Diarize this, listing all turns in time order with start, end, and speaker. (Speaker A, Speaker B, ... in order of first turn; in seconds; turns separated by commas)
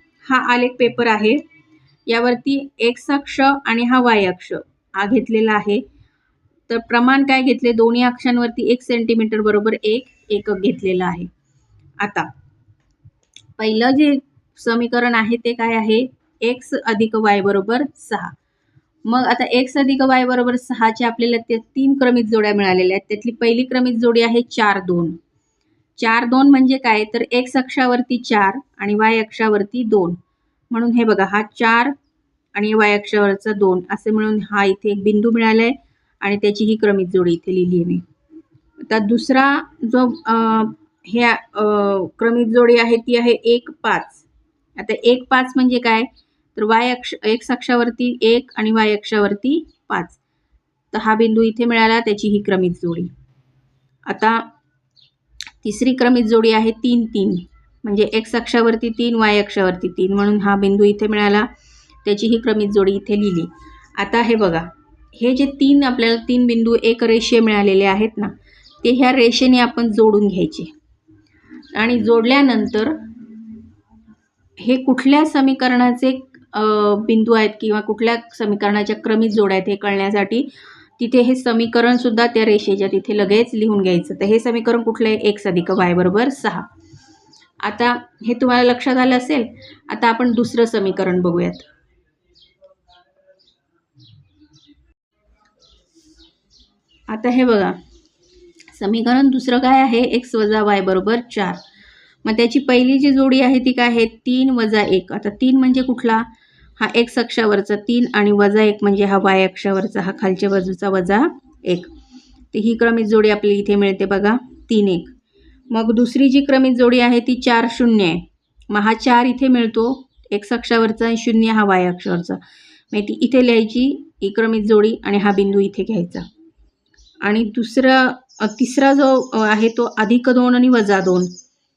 Speaker A: 0.2-1.4, Speaker A: 2.1-5.8, Speaker A: 6.7-11.3, Speaker A: 12.0-12.3, Speaker A: 13.6-18.4, Speaker A: 19.1-25.2, Speaker A: 26.0-30.2, Speaker A: 30.7-31.9, Speaker A: 32.5-38.0, Speaker A: 38.8-44.3, Speaker A: 44.8-50.2, Speaker A: 50.9-53.1, Speaker A: 54.1-54.5, Speaker A: 55.6-61.5, Speaker A: 62.0-70.7, Speaker A: 71.7-73.0, Speaker A: 74.6-86.7, Speaker A: 87.6-91.7, Speaker A: 97.1-97.8, Speaker A: 98.7-101.6, Speaker A: 102.2-111.9, Speaker A: 112.5-115.1, Speaker A: 115.7-122.4, Speaker A: 122.9-126.3, Speaker A: 127.2-131.3